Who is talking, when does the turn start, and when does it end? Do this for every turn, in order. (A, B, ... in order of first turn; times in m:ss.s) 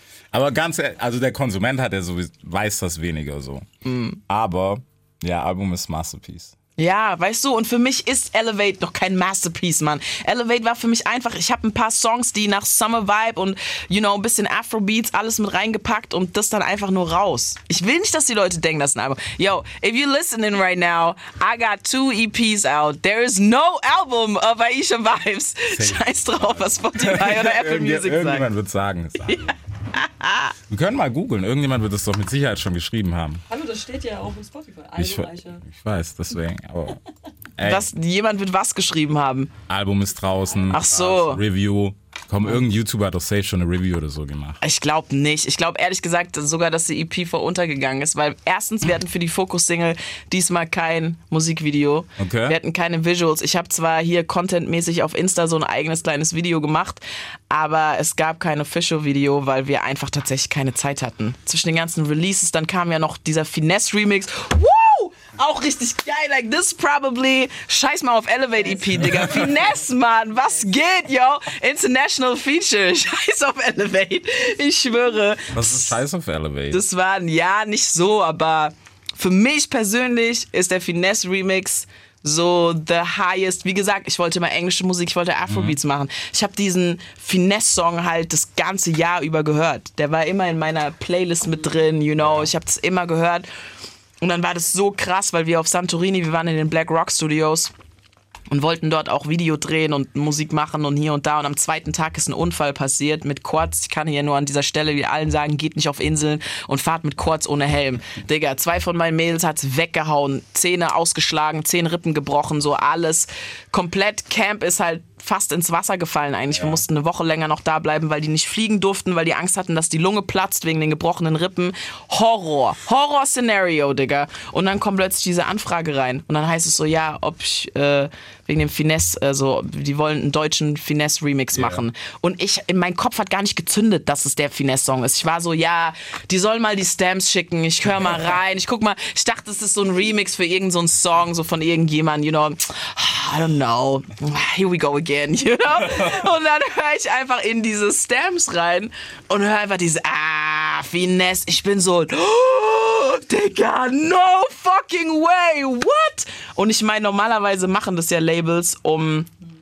0:00.3-0:03.6 A
0:03.8-0:04.2 B
0:04.3-0:06.6 A
0:06.8-0:28.5 B
0:25.7-0:29.6 A
0:29.3-0:30.6 B
0:30.7-0:33.4 A
0:33.5-0:35.6 C
0:35.0-0:37.0 A
0:37.6-0:37.9 A
0:37.6-0:39.5 B
0:39.7-0:44.6 A
0:40.7-0:41.4 B
0:44.6-1:15.9 B
0:52.2-0:52.6 A
1:08.6-1:10.7 C
1:15.5-1:16.8 A
1:16.7-1:33.5 B
1:25.5-1:25.8 A
1:32.2-1:32.5 A
1:34.2-1:37.7 B
1:38.5-2:39.3 B
1:56.5-1:56.8 A
2:11.5-2:11.8 A